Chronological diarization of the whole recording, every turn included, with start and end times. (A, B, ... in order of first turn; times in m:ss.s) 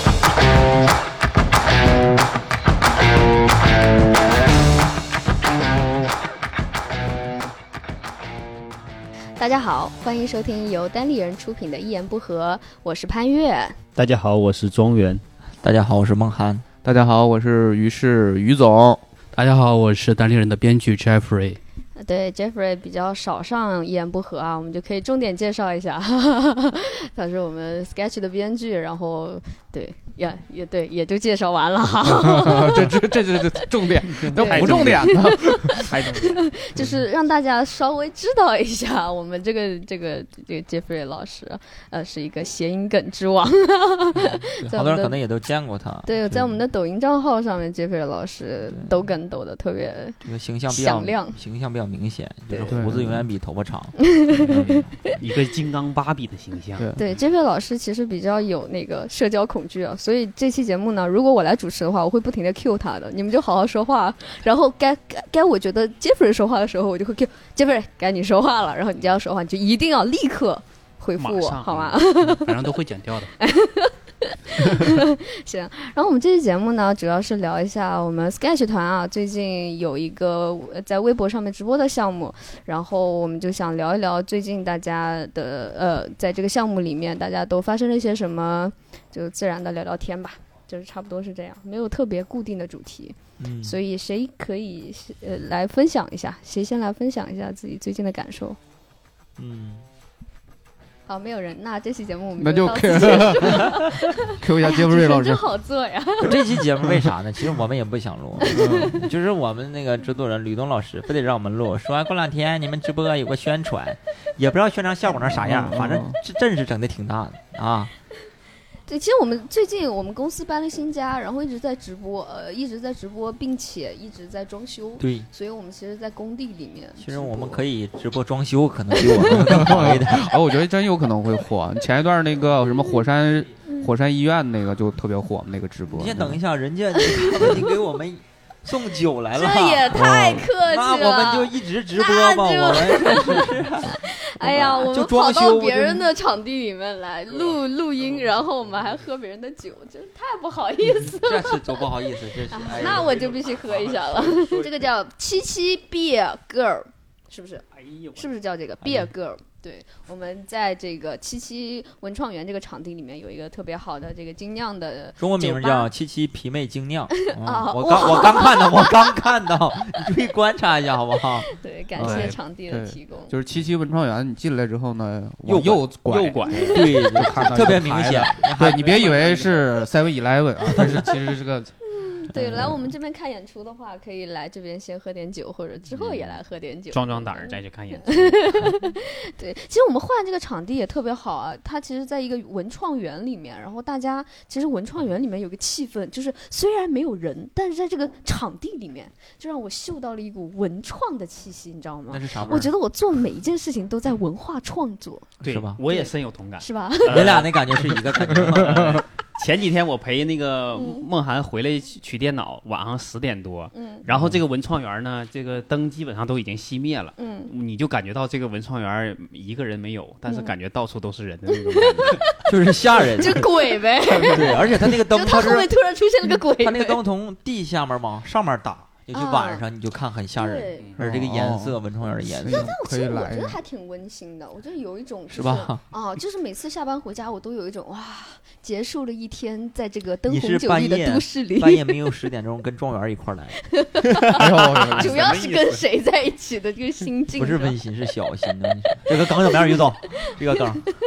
0:09.4-0:13.8 A
0:14.0-0:15.2 B
0:15.6-0:16.6 C
0:16.8-0:19.0 D
0:19.3-0:21.6 E
0:22.0-0:33.7 A
0:32.0-0:36.0 D
0:34.2-0:45.2 A
0:34.2-0:36.4 B
0:44.2-0:46.4 C
0:46.0-0:51.4 A
0:50.2-0:54.0 C
0:52.7-0:53.3 D
0:54.1-0:55.1 A
0:54.3-0:56.9 B
0:57.0-1:12.7 A
1:11.2-1:12.0 B
1:12.3-1:13.3 E
1:13.4-1:38.6 A
1:33.4-1:33.8 C
1:39.4-1:39.8 C
1:41.1-1:46.6 A
1:42.4-1:45.4 D
1:43.5-1:43.8 C
1:46.2-1:57.9 C
1:46.8-1:47.1 D
1:48.4-1:49.0 A
1:48.5-1:49.0 D
1:55.1-1:56.2 D
1:58.9-2:07.6 A
2:05.0-2:05.3 C
2:07.0-2:10.3 C
2:09.0-2:09.3 A
2:09.2-2:16.4 D
2:13.6-2:13.9 A
2:15.9-2:26.1 C
2:17.0-2:17.6 A
2:19.3-2:31.9 A
2:19.9-2:20.5 D
2:31.2-2:33.4 C
2:32.5-2:45.9 A
2:33.8-2:34.6 B
2:38.8-2:39.1 C
2:45.2-2:51.5 C
2:47.4-2:49.2 A
2:51.5-2:53.3 A
2:52.0-3:01.7 D
2:52.0-2:52.4 E
2:55.5-2:57.8 B
2:56.5-2:56.8 A
2:56.7-2:59.3 C
2:58.7-2:59.7 B
3:00.7-3:01.1 C
3:01.9-3:25.3 A
3:02.3-3:02.7 C
3:05.9-3:06.4 C
3:06.9-3:08.8 B
3:22.1-3:22.7 D
3:25.4-3:42.3 B
3:25.4-3:25.8 C
3:25.9-3:27.5 A
3:27.1-3:29.0 C
3:28.6-3:29.0 D
3:30.7-3:31.0 A
3:33.7-3:34.0 A
3:37.2-3:37.5 A
3:40.3-3:40.5 A
3:41.7-3:42.4 A
3:42.5-3:43.5 C
3:43.1-3:47.0 A
3:44.2-3:45.7 C
3:46.6-3:52.7 C
3:49.1-3:49.7 A
3:50.4-3:51.0 A
3:51.0-3:53.6 D
3:52.5-4:02.0 A
3:55.3-3:55.8 C
4:00.3-4:03.6 C
4:03.7-4:07.8 A
4:04.3-4:05.5 D
4:04.4-4:05.8 B
4:07.4-4:10.8 C